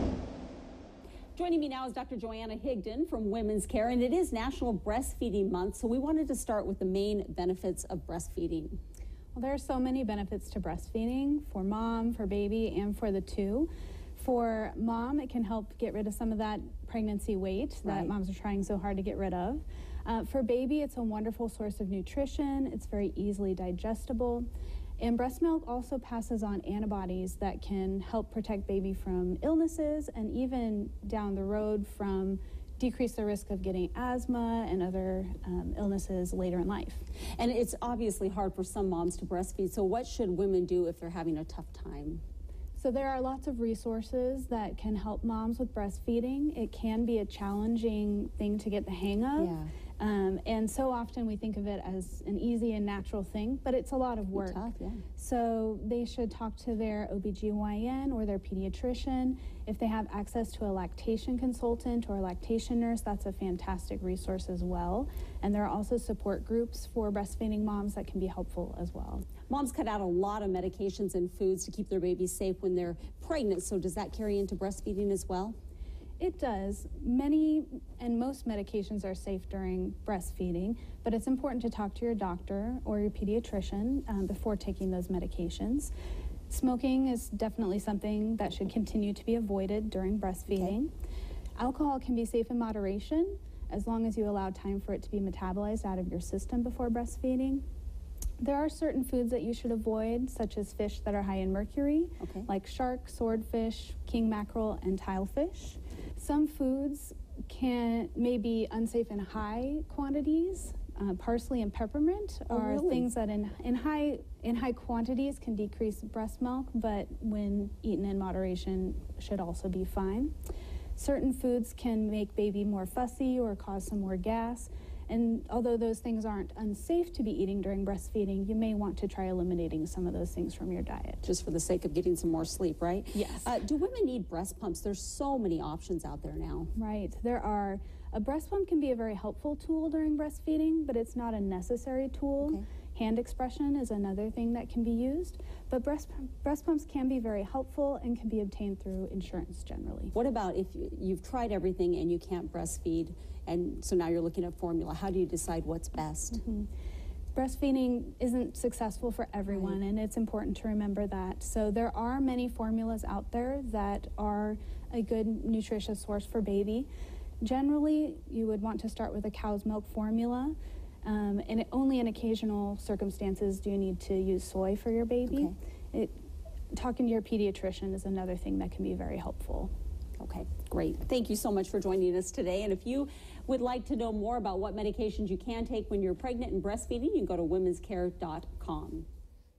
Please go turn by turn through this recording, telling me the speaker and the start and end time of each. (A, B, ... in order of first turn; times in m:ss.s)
0:01.4-0:08.8 A
0:09.3-0:24.5 B
0:17.8-0:18.1 A
0:25.0-0:37.1 B
0:37.4-0:42.2 A
0:42.8-0:54.6 B
0:49.4-0:49.7 A
0:54.3-0:55.0 A
0:55.2-1:09.3 B
1:09.5-1:15.6 A
1:16.2-1:25.9 B
1:26.5-1:30.9 B
1:30.5-1:30.8 A
1:31.6-1:37.6 B
1:38.4-2:00.3 B
1:42.2-1:42.5 A
1:52.5-1:53.1 A
2:01.0-2:11.3 B
2:11.2-2:16.7 A
2:13.2-2:13.4 B
2:16.8-2:30.1 B
2:30.1-2:36.4 A
2:36.4-2:36.7 B
2:37.4-2:46.9 B
2:39.5-2:39.8 A
2:47.4-2:56.2 B
2:55.3-2:55.6 A
2:56.7-2:59.7 B
3:00.2-3:09.1 A